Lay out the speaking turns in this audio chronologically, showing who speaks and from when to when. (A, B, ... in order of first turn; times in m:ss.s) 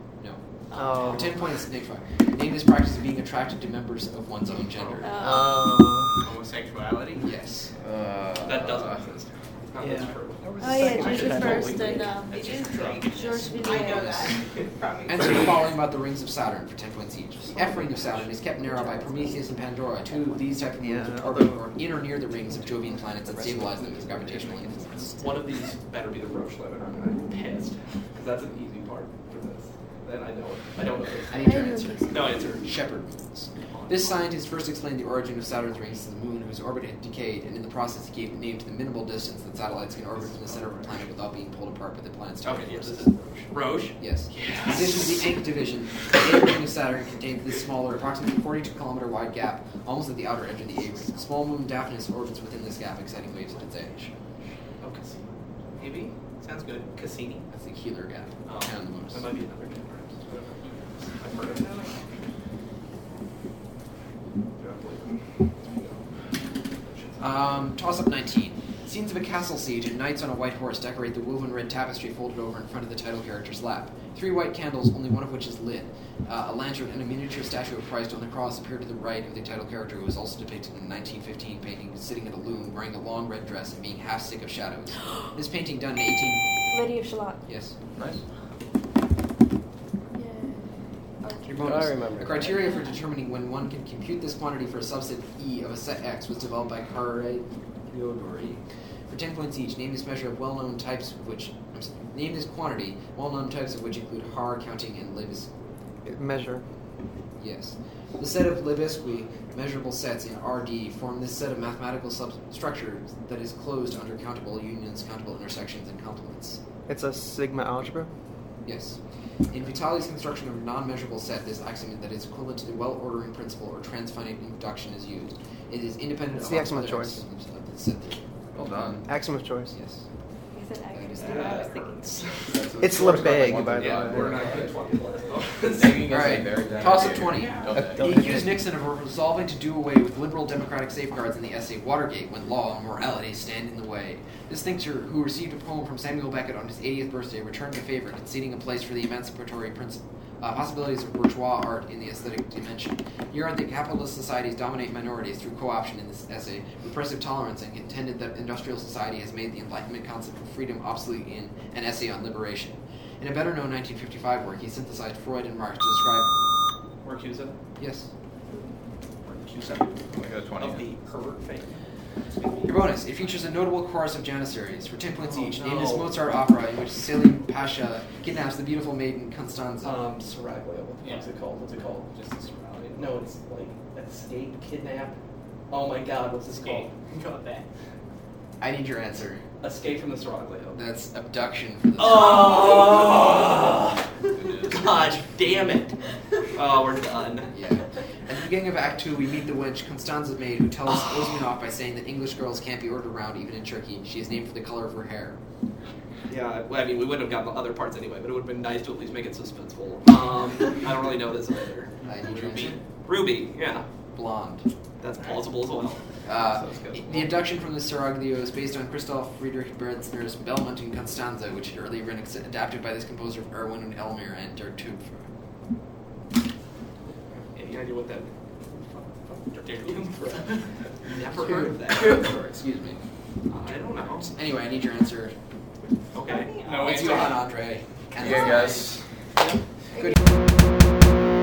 0:00.2-0:05.2 A
0:00.7-0:01.4 B
0:05.0-0:05.6 C
0:05.2-0:06.3 B
0:06.2-0:07.8 D
0:07.2-0:07.7 A
0:07.8-0:09.2 E
0:08.4-0:14.7 F
0:09.8-0:12.1 B
0:10.6-0:15.4 C
0:12.3-0:15.2 D
0:15.0-0:25.2 A
0:18.7-0:19.0 B
0:20.8-0:25.4 B
0:25.2-0:32.7 F
0:31.3-0:54.3 A
0:31.4-0:32.4 C
0:33.7-0:34.2 F
0:42.4-0:45.4 F
0:54.8-0:57.5 F
0:57.5-0:59.3 A
0:58.5-1:02.3 F
1:04.6-1:07.6 F
1:07.2-1:26.7 A
1:26.7-1:27.7 C
1:27.4-1:27.8 A
1:27.9-1:28.2 E
1:30.1-1:31.6 C
1:31.5-1:32.5 B
1:31.5-1:45.5 A
1:32.6-1:32.9 C
1:46.0-1:46.6 B
1:47.4-1:56.6 A
1:56.9-1:58.1 B
1:58.6-2:10.1 A
2:06.3-2:07.2 B
2:08.5-2:09.1 E
2:09.0-2:09.8 B
2:10.5-2:12.1 C
2:10.9-2:11.6 A
2:11.2-2:13.0 F
2:12.5-2:14.8 E
2:12.8-2:14.5 B
2:13.7-2:17.7 F
2:15.6-2:18.4 E
2:16.1-2:46.4 A
2:17.7-2:18.6 B
2:47.0-2:47.6 F
2:47.8-2:48.1 A
2:49.2-2:53.3 F
2:50.1-2:50.9 E
2:52.6-3:00.0 A
2:55.2-2:56.1 F
2:59.8-3:07.9 F
3:01.0-3:01.3 D
3:06.6-3:06.9 D
3:08.6-3:09.5 A
3:09.6-3:10.8 F
3:10.7-3:13.0 A
3:12.0-3:17.6 F
3:14.3-3:15.2 E
3:17.5-3:25.4 A
3:26.3-3:34.1 F
3:32.0-3:32.8 A
3:34.1-3:34.7 A
3:35.0-3:36.2 F
3:36.2-3:45.3 A
3:36.3-3:37.4 E
3:47.3-3:48.4 F
3:48.9-3:52.4 F
3:51.0-3:55.4 A
3:53.5-3:54.4 F
3:56.1-3:57.5 F
3:56.2-3:57.1 C
3:56.7-3:57.1 D
3:56.8-3:59.0 A
3:58.1-3:59.4 E